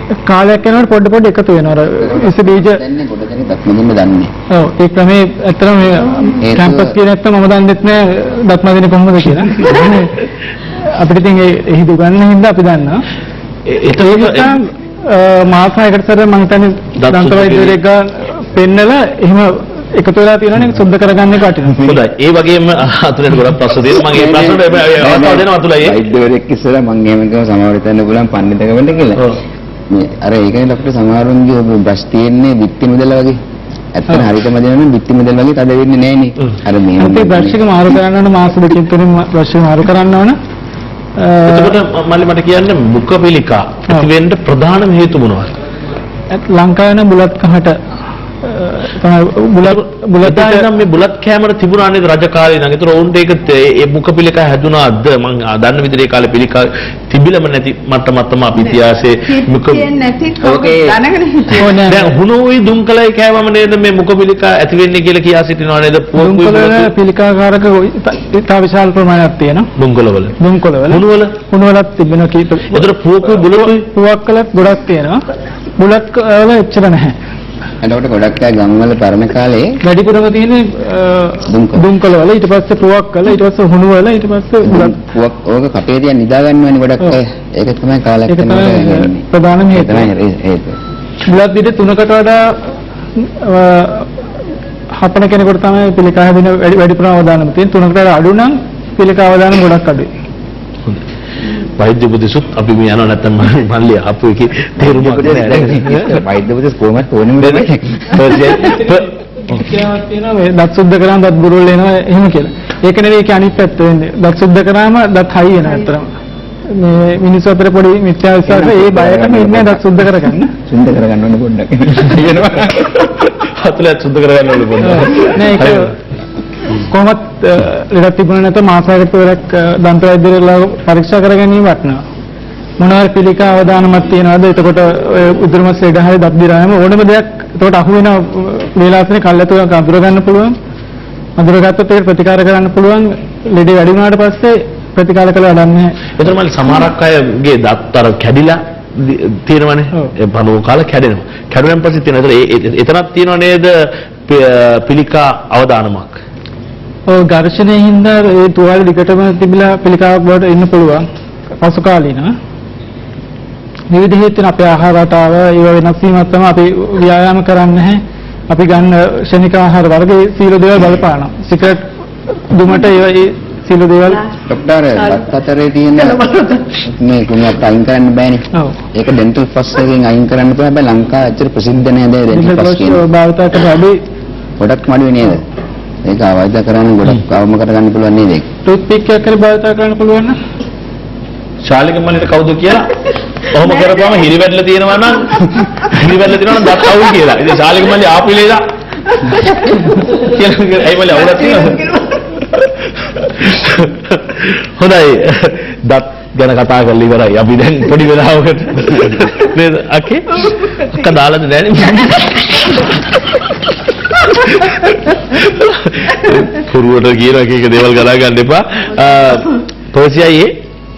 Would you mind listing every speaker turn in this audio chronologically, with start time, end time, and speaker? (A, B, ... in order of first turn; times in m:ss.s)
0:00.3-0:02.8 A
0:01.9-0:04.3 B
0:04.5-0:10.1 A
0:06.4-0:07.0 B
0:09.5-0:10.0 C
0:11.0-0:13.0 A
0:13.7-0:14.6 C
0:13.9-0:22.0 A
0:17.0-0:17.8 C
0:21.8-0:26.0 C
0:23.9-0:29.3 B
0:29.9-0:33.4 B
0:34.0-0:37.6 B
0:37.0-0:40.4 A
0:41.2-0:41.8 A
0:41.5-0:45.5 C
0:46.3-0:47.8 A
0:48.4-0:50.7 A
0:49.6-0:59.8 C
0:58.6-1:01.7 D
1:00.4-1:01.0 B
1:01.6-1:06.9 C
1:01.6-1:02.1 A
1:06.2-1:09.7 A
1:09.8-1:11.3 C
1:10.4-1:15.2 A
1:12.7-1:13.9 C
1:15.8-1:17.2 A
1:17.8-1:19.8 B
1:19.8-1:25.0 A
1:21.5-1:21.8 B
1:24.6-1:30.8 B
1:28.3-1:30.1 A
1:31.3-1:32.4 A
1:33.2-1:34.1 A
1:35.0-1:40.1 A
1:41.8-1:46.2 C
1:44.8-1:48.2 B
1:47.4-1:49.6 C
1:48.6-1:49.0 A
1:49.5-1:56.1 A
1:56.7-2:00.5 A
1:58.5-2:02.9 B
2:02.6-2:06.0 C
2:04.8-2:05.9 A
2:06.9-2:12.0 A
2:12.8-2:20.6 A
2:21.4-2:26.0 A
2:26.2-2:36.2 C
2:37.1-2:41.0 A
2:41.6-2:42.3 A
2:43.9-2:51.8 A
2:52.5-2:54.2 A
2:54.5-3:03.0 B
2:56.2-2:56.6 D
3:02.3-3:04.0 A
3:04.6-3:05.4 B
3:06.0-3:08.5 B
3:08.7-3:10.4 A
3:11.6-3:18.6 C
3:19.3-3:32.9 C
3:34.2-3:40.6 C